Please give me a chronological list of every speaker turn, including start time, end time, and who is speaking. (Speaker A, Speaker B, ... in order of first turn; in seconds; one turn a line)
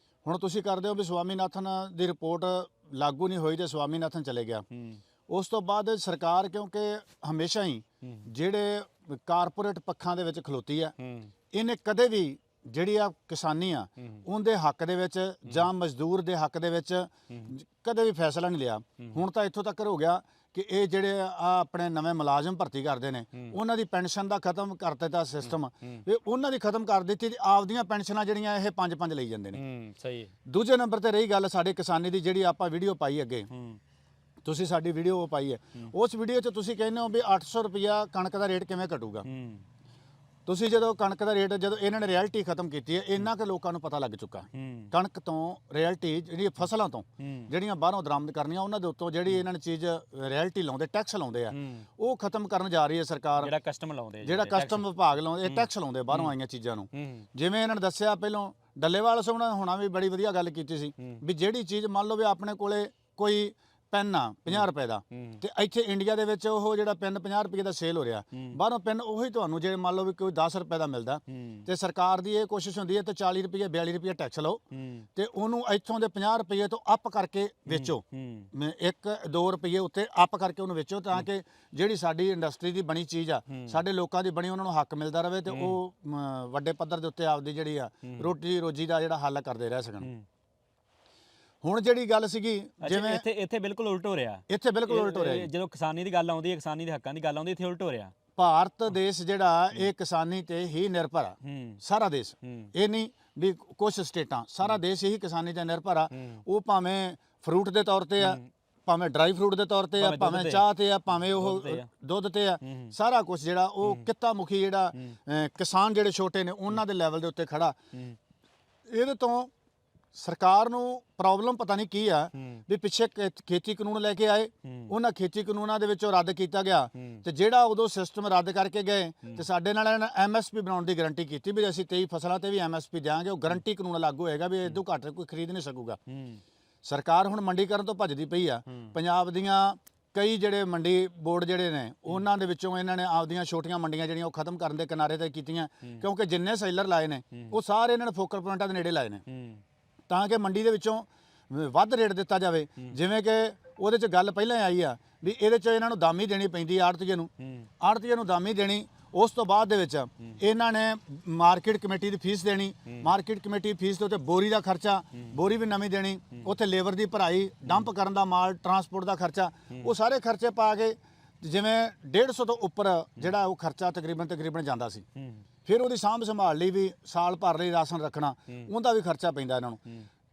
Speaker A: 0.2-4.7
Speaker B: 4.7-5.0
Speaker A: 5.3-10.9
Speaker B: 11.0-11.3
Speaker A: 11.5-29.6
Speaker B: 25.4-26.0
Speaker B: 29.5-30.3
Speaker A: 30.5-33.5
Speaker B: 33.5-33.8
Speaker A: 34.4-39.2
Speaker B: 39.2-39.6
Speaker A: 40.5-53.5
Speaker B: 44.5-44.9
Speaker B: 47.2-47.5
Speaker B: 51.5-51.9
Speaker B: 53.4-54.9
Speaker A: 54.2-74.6
Speaker B: 55.4-56.3
Speaker B: 56.9-57.2
Speaker B: 64.5-65.4
Speaker B: 71.3-71.7
Speaker B: 74.7-75.1
Speaker A: 75.2-90.1
Speaker B: 77.7-78.5
Speaker B: 83.5-83.8
Speaker B: 85.5-85.8
Speaker B: 90.0-90.3
Speaker A: 91.6-93.2
Speaker B: 92.8-98.1
Speaker A: 94.5-95.5
Speaker A: 98.3-117.8
Speaker B: 101.4-101.8
Speaker B: 102.4-102.7
Speaker B: 106.2-106.4
Speaker B: 108.2-108.5
Speaker B: 110.0-111.9
Speaker B: 112.6-112.9
Speaker A: 118.9-119.5
Speaker A: 120.1-136.0
Speaker B: 122.3-122.6
Speaker B: 124.7-124.9
Speaker B: 127.0-127.2
Speaker B: 136.1-136.4
Speaker A: 136.8-149.2
Speaker B: 149.3-149.6
Speaker A: 150.1-175.0
Speaker B: 157.4-157.7
Speaker B: 175.2-175.4
Speaker A: 175.7-179.8